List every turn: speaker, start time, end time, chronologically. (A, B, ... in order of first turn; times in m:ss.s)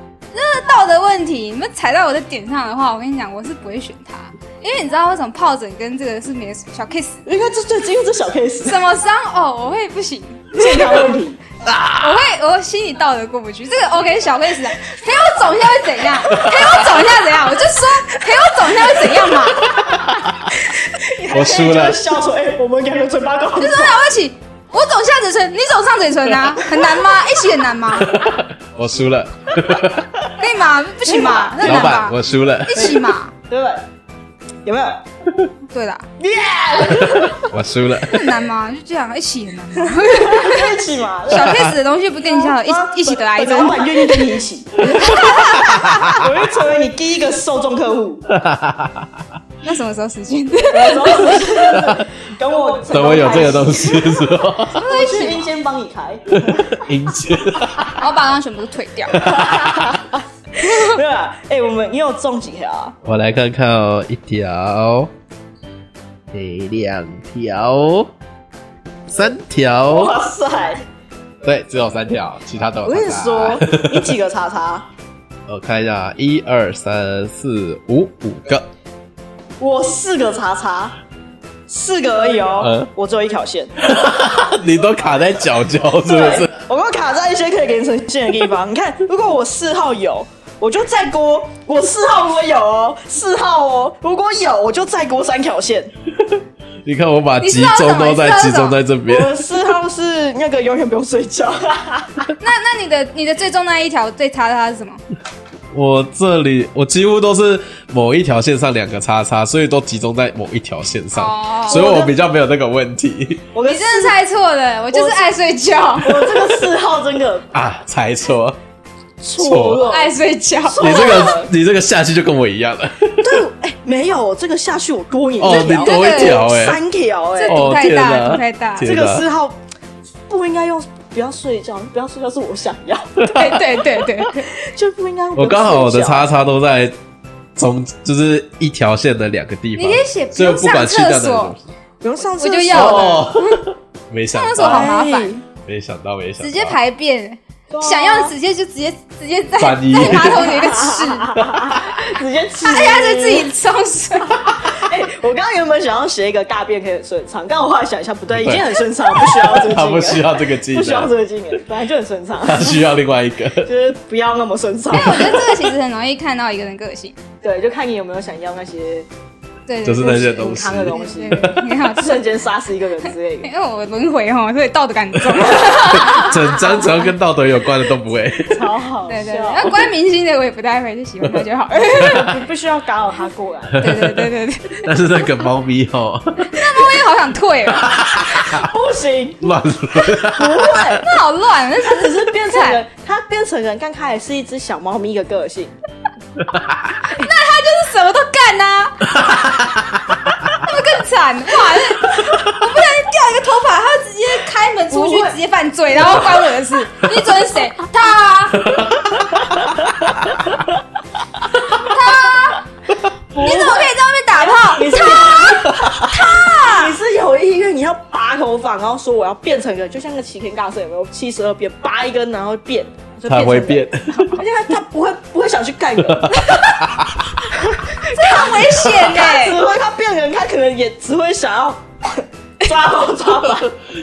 0:00.3-0:07.2 A
0:07.2-0:08.8 B
0:08.7-0:11.1 A
0:10.5-0:11.4 B
0:11.6-0:12.2 C
0:12.0-0:19.8 A
0:16.4-0:17.0 C
0:18.9-0:19.2 B
0:19.8-0:20.5 C
0:20.5-0:24.0 B
0:21.3-0:22.0 C
0:23.6-0:28.1 A
0:27.9-0:30.2 C
0:30.4-0:33.3 A
0:31.0-0:31.9 B
0:31.6-0:33.0 C
0:32.7-0:33.9 B
0:34.6-0:35.0 B
0:35.7-0:36.1 A
0:36.2-0:37.5 B
0:37.4-0:38.4 C
0:38.1-0:44.4 A
0:39.8-0:48.3 B
0:41.3-0:41.8 C
0:45.0-0:46.1 A
0:45.3-0:46.3 C
0:48.3-0:49.2 C
0:49.6-0:51.6 A
0:50.7-0:54.3 B
0:51.8-0:52.0 C
0:52.9-0:54.8 C
0:54.7-0:55.5 A
0:54.8-0:56.9 B
0:56.3-0:58.0 C
0:57.9-0:59.3 A
0:59.2-0:59.9 C
0:59.2-1:03.0 B
1:03.0-1:05.1 C
1:06.3-1:08.1 C
1:09.1-1:10.2 C
1:09.9-1:10.8 B
1:11.4-1:14.1 C
1:12.8-1:14.9 B
1:15.5-1:18.7 C
1:19.6-1:21.0 B
1:21.7-1:23.8 B
1:22.6-1:22.9 C
1:23.8-1:26.5 C
1:26.0-1:35.9 B
1:36.3-1:39.4 C
1:37.4-1:38.8 A
1:39.1-1:42.3 B
1:42.4-1:45.0 A
1:45.7-1:53.5 C
1:51.1-1:52.0 A
1:51.7-1:52.1 B
1:53.5-1:54.2 B
1:53.6-1:56.6 A
1:54.9-1:55.4 B
1:56.0-1:57.5 B
1:57.5-1:58.6 C
1:59.2-2:01.5 B
1:59.4-1:59.9 C
1:59.9-2:01.4 A
2:00.8-2:03.4 C
2:03.2-2:07.7 B
2:05.4-2:06.8 C
2:05.5-2:06.5 A
2:07.4-2:08.9 A
2:07.5-2:09.2 C
2:08.8-2:09.6 B
2:10.3-2:13.6 B
2:13.2-2:13.6 C
2:13.3-2:14.5 A
2:14.2-2:16.3 B
2:15.4-2:17.0 C
2:17.6-2:21.7 C
2:19.8-2:21.5 A
2:22.0-2:23.3 B
2:22.4-2:23.6 A
2:22.7-2:25.0 C
2:24.3-2:25.4 A
2:24.6-2:25.4 B
2:25.6-2:26.8 C
2:26.4-2:31.4 A
2:27.7-2:28.3 B
2:29.6-2:30.6 C
2:30.1-2:33.5 B
2:31.5-2:31.8 C
2:32.6-2:34.5 A
2:34.3-2:42.8 B
2:38.3-2:41.1 C
2:42.4-2:43.7 C
2:43.6-2:45.5 B
2:44.9-2:47.2 A
2:47.4-2:49.1 B
2:49.7-2:52.4 A
2:49.8-2:51.7 C
2:50.0-2:53.5 B
2:53.4-2:57.0 A
2:55.2-2:58.7 C
2:58.5-2:59.7 B
2:59.1-3:02.3 A
3:01.2-3:02.3 C
3:01.8-3:03.9 B
3:03.7-3:04.3 C
3:03.8-3:04.9 A
3:04.8-3:06.9 C
3:06.5-3:08.0 A
3:07.7-3:08.7 C
3:08.3-3:11.1 B
3:09.4-3:11.0 C
3:10.8-3:12.8 A
3:11.8-3:15.8 B
3:16.4-3:16.9 C
3:17.1-3:19.6 A
3:19.2-3:20.5 C
3:20.6-3:28.7 A
3:22.1-3:22.4 C
3:24.9-3:25.4 B
3:26.0-3:26.3 B
3:28.6-3:30.4 C
3:29.5-3:30.1 B
3:31.7-3:32.6 A
3:33.3-3:46.5 B
3:33.4-3:37.0 A
3:35.4-3:36.0 C
3:43.3-3:44.4 C
3:46.0-3:47.1 C
3:46.4-3:46.8 A
3:47.4-3:53.7 B
3:48.1-3:49.6 A